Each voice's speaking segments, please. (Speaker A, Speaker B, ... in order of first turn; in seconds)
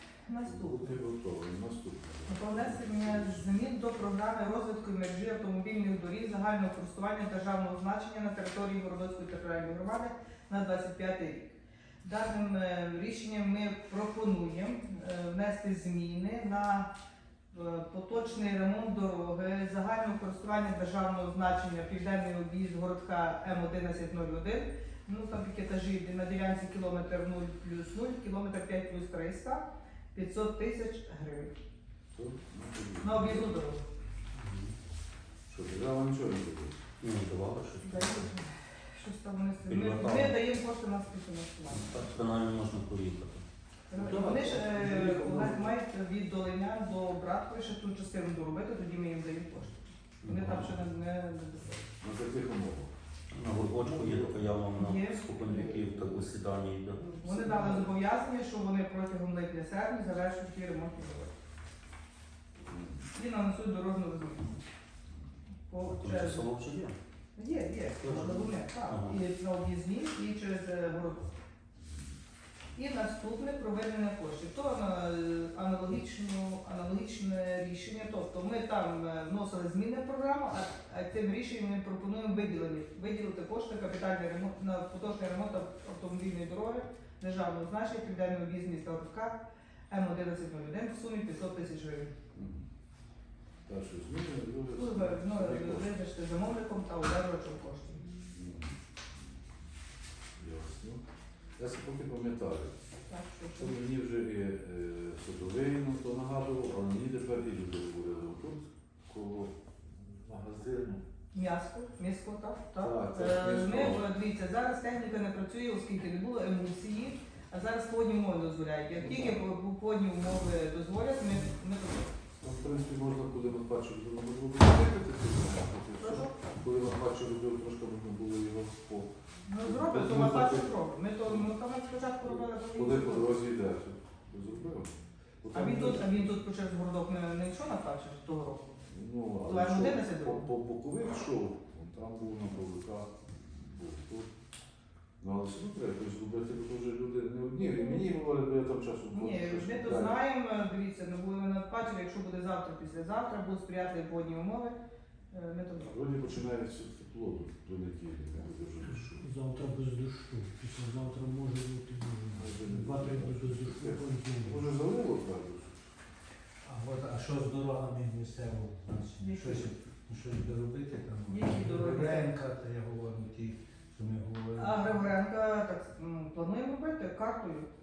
Speaker A: 0.3-0.9, 2.3-16.9, 17.5-29.6, 30.1-31.5, 33.0-33.8, 37.8-42.0, 43.9-51.8, 54.7-55.5, 57.2-61.3, 63.1-64.6, 65.7-66.5, 67.3-71.3, 72.8-92.1, 94.7-98.1, 103.0-103.7, 111.3-122.1, 126.0-126.3, 129.4-133.3, 135.5-138.7, 139.5-140.5, 147.7-148.0, 149.1-154.8, 155.3-155.9, 169.2-169.7, 171.2-172.3, 174.6-177.7
Speaker B: 0.4-3.5, 32.1-33.5, 35.5-36.8, 43.9-45.7, 52.0-52.9, 53.7-54.5, 55.4-56.3, 62.6-63.1, 92.3-92.6, 93.7-96.0, 98.3-98.7, 100.4-101.0, 101.6-102.8, 103.5-111.0, 112.8-114.1, 119.0-119.3, 122.4-130.7, 132.2-136.4, 138.9-144.3, 145.2-150.2, 155.8-159.3, 162.3-165.9
Speaker C: 34.4-34.7, 37.0-38.3, 39.6-40.4, 41.6-43.4, 50.2-50.8, 53.3-57.7, 65.8-67.0, 68.0-69.2
Speaker D: 159.2-164.6, 166.6-175.1